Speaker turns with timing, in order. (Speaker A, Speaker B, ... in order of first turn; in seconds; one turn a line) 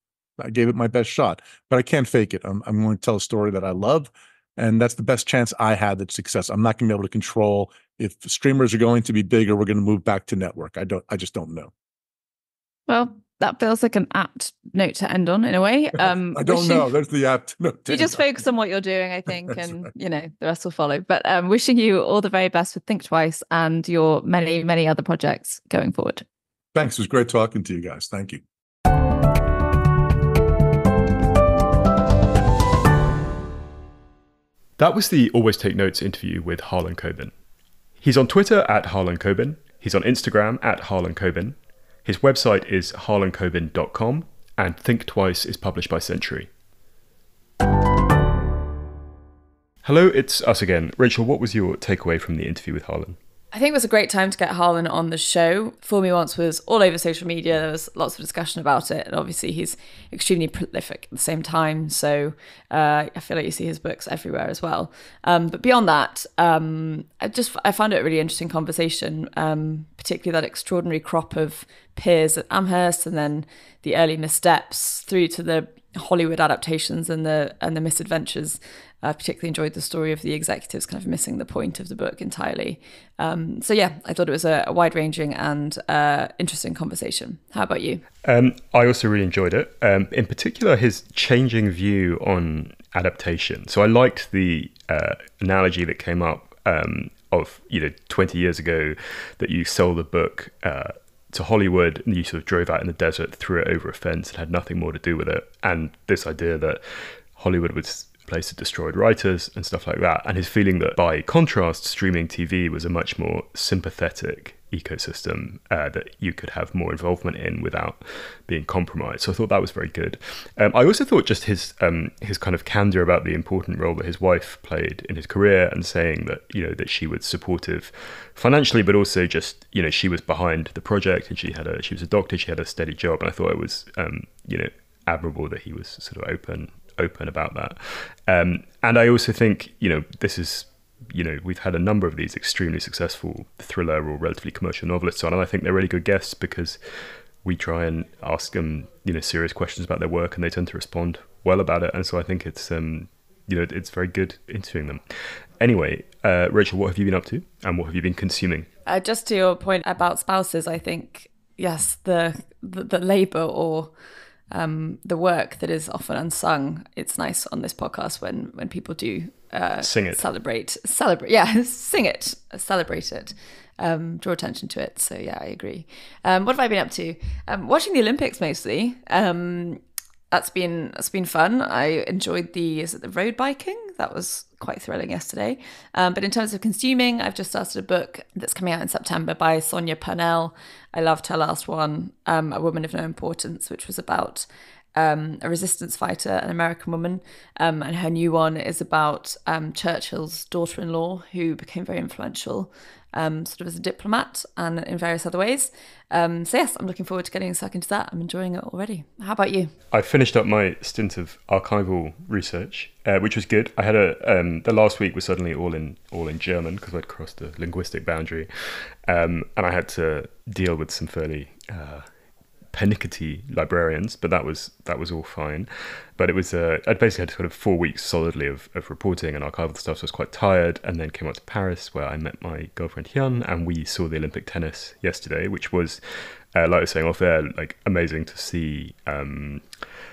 Speaker A: 0.4-11.7
Speaker B: 12.9-16.9
Speaker A: 16.3-18.2
Speaker B: 17.9-26.2
Speaker A: 26.8-28.4
Speaker C: 34.8-37.4
Speaker C: 38.0-46.5
Speaker C: 49.8-53.2
Speaker B: 53.5-88.0
Speaker C: 88.2-146.8
Speaker C: 147.4-155.1
Speaker C: 155.6-158.7
Speaker B: 158.9-163.9
Speaker B: 164.5-209.7
Speaker C: 169.8-170.2
Speaker C: 209.9-222.1
Speaker C: 222.7-239.7